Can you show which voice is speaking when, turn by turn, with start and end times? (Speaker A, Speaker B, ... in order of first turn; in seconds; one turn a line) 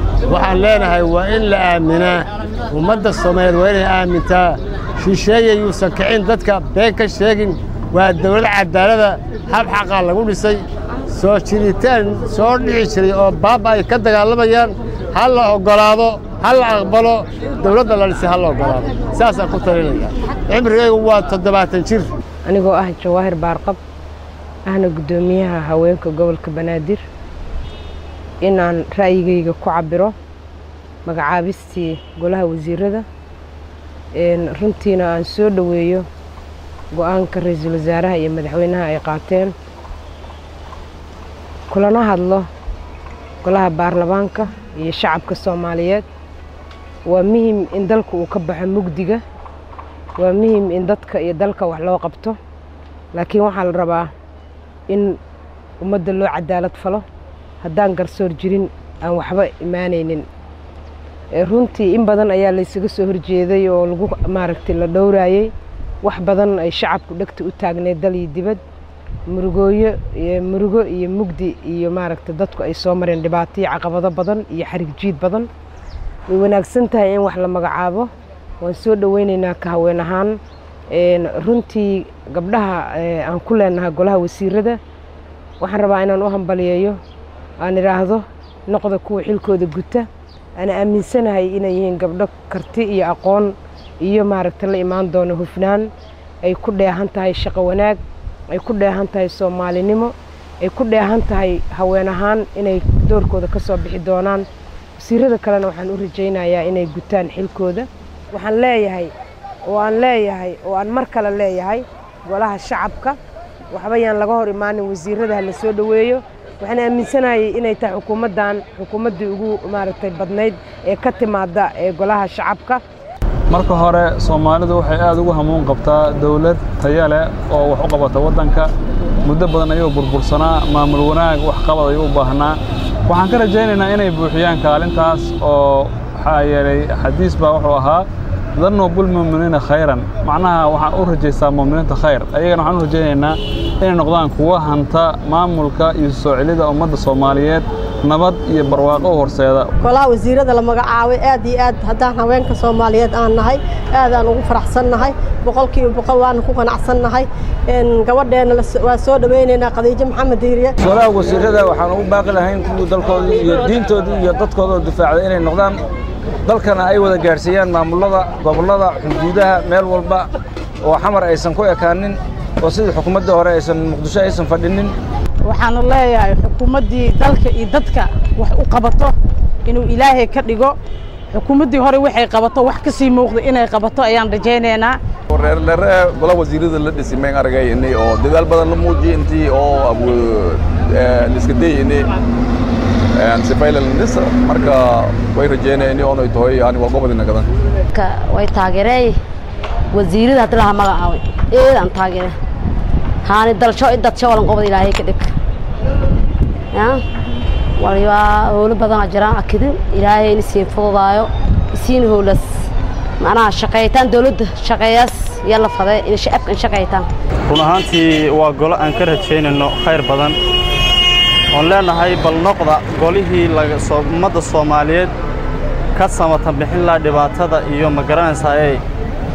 Speaker A: 0.3-22.1
Speaker B: 22.5-23.8
Speaker B: 24.6-27.0
Speaker B: 28.4-30.1
Speaker B: 31.0-33.0
Speaker B: 34.1-36.1
Speaker B: 36.9-39.5
Speaker B: 41.7-42.5
Speaker B: 43.4-46.0
Speaker B: 47.0-49.2
Speaker B: 50.2-52.4
Speaker B: 53.1-54.1
Speaker B: 54.9-55.2
Speaker B: 55.8-57.0
Speaker B: 57.6-60.2
Speaker B: 61.4-65.5
Speaker B: 66.0-68.6
Speaker B: 69.3-75.5
Speaker B: 76.3-80.4
Speaker B: 80.9-84.8
Speaker B: 85.6-87.0
Speaker B: 87.6-90.1
Speaker B: 90.6-95.9
Speaker B: 96.4-98.0
Speaker B: 98.5-104.5
Speaker B: 105.0-109.1
Speaker B: 109.7-113.2
Speaker B: 113.7-122.8
Speaker C: 123.5-128.7
Speaker C: 129.2-132.6
Speaker C: 133.1-138.1
Speaker C: 138.6-149.7
Speaker D: 149.8-160.8
Speaker E: 160.8-165.8
Speaker E: 166.4-170.3
Speaker E: 170.8-174.9
Speaker F: 175.4-180.8
Speaker F: 181.3-185.0
Speaker G: 185.3-192.1
Speaker G: 193.2-197.5
Speaker H: 197.9-199.2
Speaker H: 199.9-202.3
Speaker H: 203.2-205.3
Speaker H: 206.7-207.0
Speaker H: 207.8-212.5
Speaker H: 213.2-217.1
Speaker I: 217.5-220.4
Speaker I: 221.5-225.1
Speaker I: 225.9-228.8